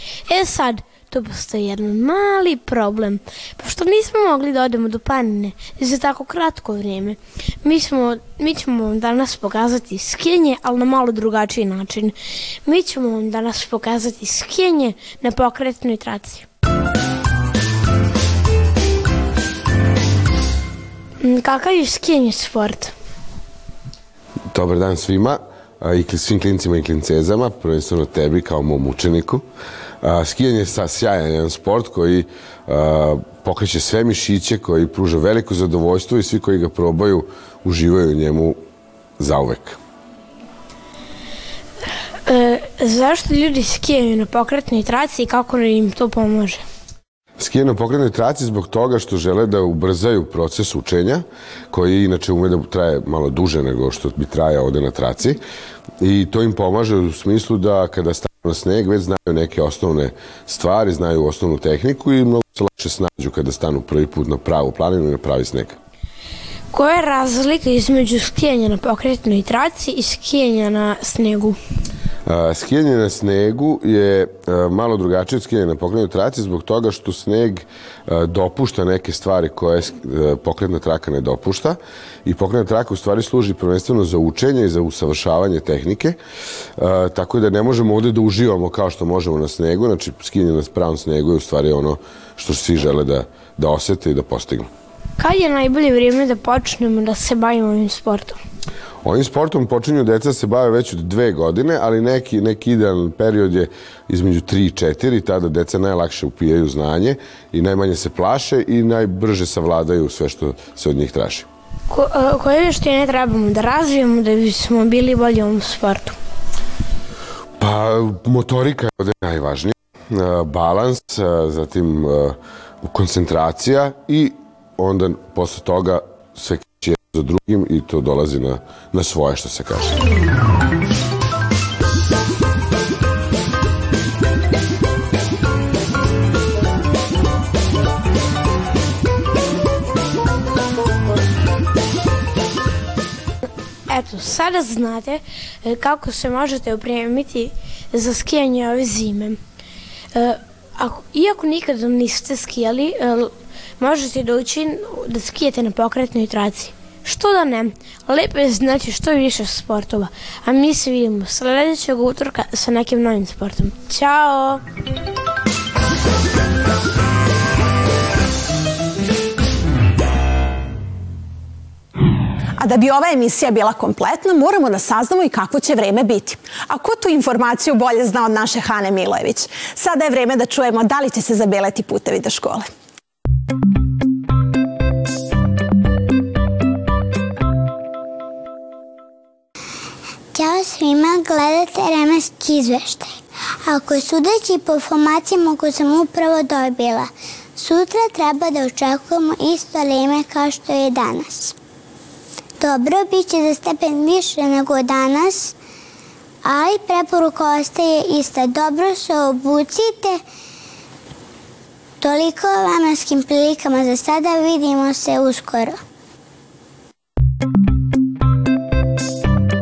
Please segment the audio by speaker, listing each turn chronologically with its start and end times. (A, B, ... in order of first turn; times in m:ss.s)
0:00.3-0:16.4 A
0:21.2-0:22.9 A
0:24.5-0:29.4 B
0:30.0-0:38.6 B
0:39.2-0:39.8 B
0:42.2-0:46.6 A
0:47.4-0:55.4 B
0:56.0-1:05.8 B
1:06.7-1:11.6 A
1:12.2-1:26.2 B
1:26.8-1:34.7 B
1:35.2-1:38.4 A
1:39.0-1:51.5 B
1:51.9-1:56.2 A
1:57.6-2:10.0 B
2:23.9-2:29.4 A
2:30.1-2:44.6 A
2:52.6-3:02.7 C
3:10.3-3:13.1 D
3:13.6-3:21.5 D
3:22.6-3:25.5 D
3:26.4-3:30.2 D
3:32.0-3:35.8 D